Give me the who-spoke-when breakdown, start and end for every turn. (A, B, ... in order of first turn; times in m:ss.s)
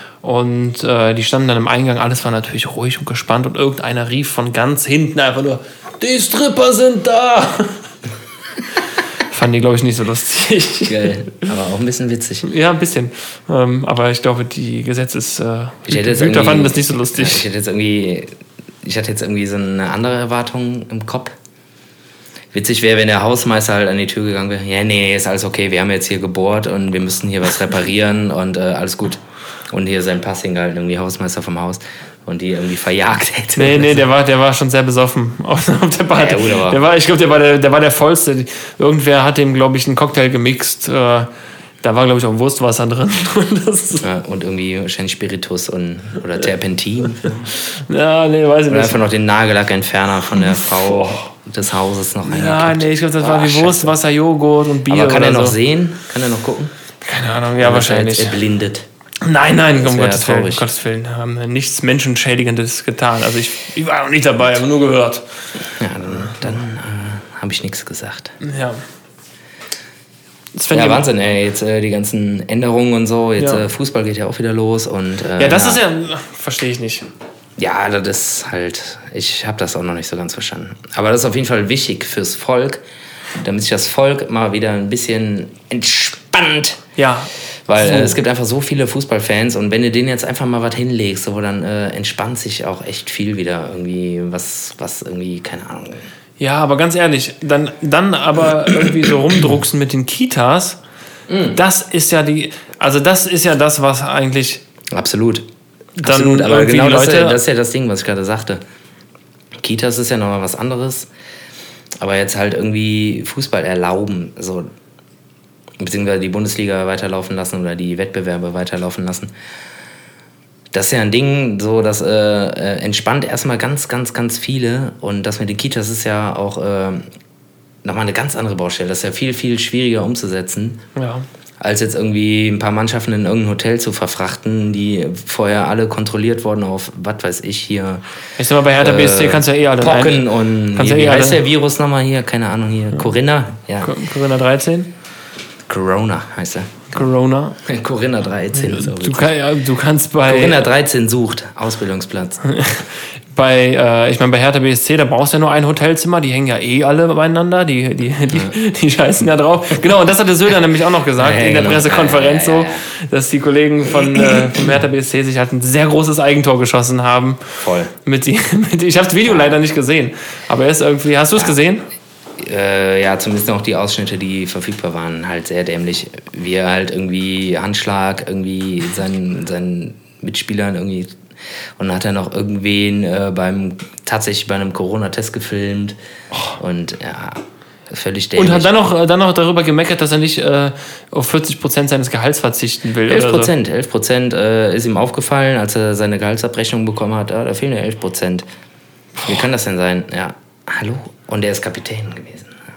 0:00.2-0:07.8 A
0:09.3-0:11.1 A
0:10.9-0:12.5 B
0:12.4-0:17.4 A
0:15.9-0:21.4 B
0:22.5-0:34.0 B
0:33.6-0:41.3 A
0:36.1-0:36.8 B
0:41.8-0:44.0 A
0:44.0-0:47.5 B
0:47.8-0:49.0 A
0:48.7-0:54.0 B
0:50.6-0:51.3 A
0:52.3-0:55.6 A
0:54.9-0:56.7 B
0:57.0-0:58.4 A
0:57.6-0:58.9 B
0:59.2-1:05.2 A
0:59.7-1:00.6 B
1:05.8-1:08.4 B
1:06.3-1:06.5 A
1:08.4-1:08.8 A
1:10.6-1:11.1 A
1:10.7-1:15.8 B
1:13.4-1:13.6 A
1:15.4-1:17.1 A
1:17.6-1:22.8 B
1:23.4-1:26.8 B
1:27.0-1:28.2 A
1:27.7-1:36.1 B
1:36.4-1:40.8 A
1:41.3-1:41.6 B
1:41.5-1:44.6 A
1:44.9-1:45.5 B
1:46.0-1:47.4 A
1:46.0-1:48.6 B
1:49.6-1:51.1 B
1:52.0-1:54.7 B
1:55.8-1:59.3 B
2:00.7-2:07.1 B
2:07.8-2:10.8 B
2:11.0-2:11.2 A
2:11.6-2:18.0 B
2:18.4-2:21.4 A
2:18.8-2:24.0 B
2:23.8-2:24.9 A
2:25.7-2:26.9 B
2:26.9-2:27.6 A
2:27.6-2:29.4 B
2:28.6-2:30.6 A
2:30.2-2:32.4 B
2:32.5-2:47.5 A
2:38.3-2:38.6 B
2:41.2-2:42.8 B
2:44.2-2:44.6 B
2:47.6-2:47.9 B
2:48.0-2:51.8 A
2:49.3-2:49.5 B
2:52.4-3:01.2 B
3:01.8-3:06.0 B
3:06.6-3:08.7 B
3:08.4-3:13.5 A
3:13.1-3:18.5 B
3:19.2-3:22.6 B